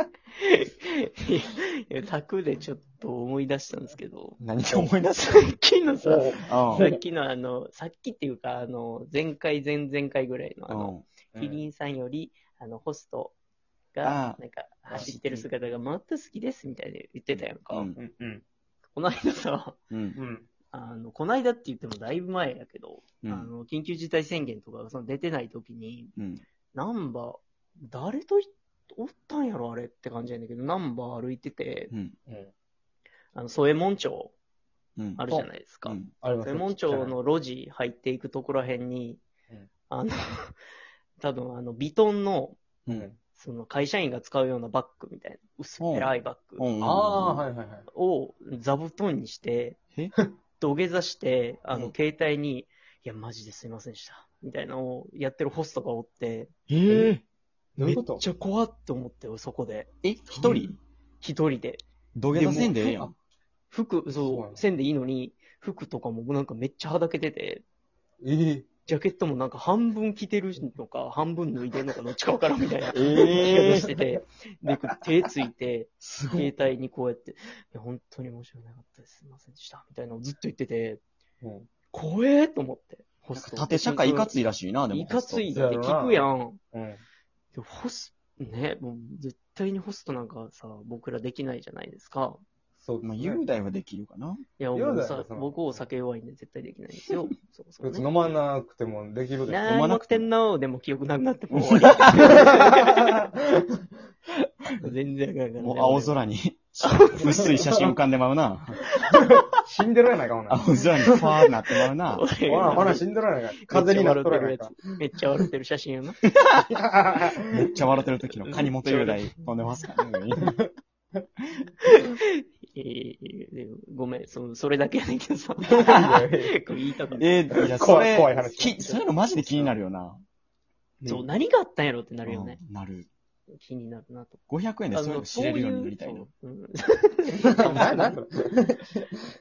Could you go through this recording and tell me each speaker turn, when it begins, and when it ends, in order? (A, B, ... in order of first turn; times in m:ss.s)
0:00.3-0:04.4 A
0:04.4-0:05.4 B
0:05.1-0:13.3 A
0:06.0-0:06.4 C
0:06.4-0:07.0 B
0:10.7-0:11.0 B
0:11.3-0:11.6 C
0:13.9-0:18.0 A
0:14.0-0:14.4 B
0:14.9-0:15.5 B
0:17.3-0:18.0 B
0:18.0-0:18.4 C
0:18.9-0:19.8 A
0:19.9-0:20.2 B
0:20.2-0:20.5 C
0:20.7-0:26.1 A
0:23.2-0:23.5 B
0:26.2-0:26.4 B
0:26.7-0:31.9 A
0:33.3-0:34.3 A
0:35.0-0:35.3 B
0:35.2-0:39.2 A
0:35.8-0:36.1 B
0:36.2-0:37.1 C
0:39.9-0:40.6 A
0:41.2-0:42.6 A
0:42.9-0:43.2 C
0:43.3-0:46.6 A
0:45.8-0:47.4 B
0:46.8-0:47.9 C
0:47.9-0:49.8 A
0:50.6-0:56.5 A
0:56.7-0:57.2 B
0:57.8-0:58.2 C
0:57.8-0:59.9 A
1:00.0-1:00.8 B
1:00.3-1:00.7 C
1:01.2-1:01.8 A
1:02.2-1:03.1 B
1:02.3-1:03.1 C
1:02.4-1:03.0 A
1:03.7-1:07.6 A
1:04.1-1:04.6 C
1:08.2-1:08.6 C
1:08.8-1:21.0 A
1:12.9-1:14.0 B
1:16.0-1:16.5 B
1:21.4-1:21.7 C
1:21.9-1:24.3 A
1:23.4-1:25.5 B
1:24.9-1:26.6 A
1:25.5-1:27.0 C
1:27.5-1:32.4 A
1:32.8-1:33.4 C
1:33.0-1:34.4 B
1:34.6-1:38.0 A
1:34.7-1:35.8 C
1:37.8-1:39.7 C
1:39.5-1:43.2 A
1:39.5-1:40.3 B
1:41.5-1:42.6 B
1:42.3-1:43.7 C
1:44.8-1:46.2 A
1:45.6-1:48.8 B
1:46.8-1:47.5 A
1:48.8-1:49.6 A
1:49.1-1:50.6 C
1:50.5-1:53.0 B
1:52.1-1:53.1 A
1:52.4-1:54.8 C
1:53.6-1:56.3 A
1:56.4-1:56.6 B
1:56.7-1:57.6 C
1:57.5-2:00.6 B
1:58.5-1:59.3 A
2:01.8-2:07.5 A
2:05.7-2:06.6 C
2:05.8-2:06.2 B
2:07.2-2:10.2 B
2:07.5-2:08.9 C
2:08.2-2:09.7 A
2:11.0-2:11.3 C
2:11.0-2:12.6 A
2:12.2-2:13.1 B
2:13.5-2:14.4 A
2:14.5-2:16.3 B
2:14.9-2:18.2 A
2:17.4-2:19.2 C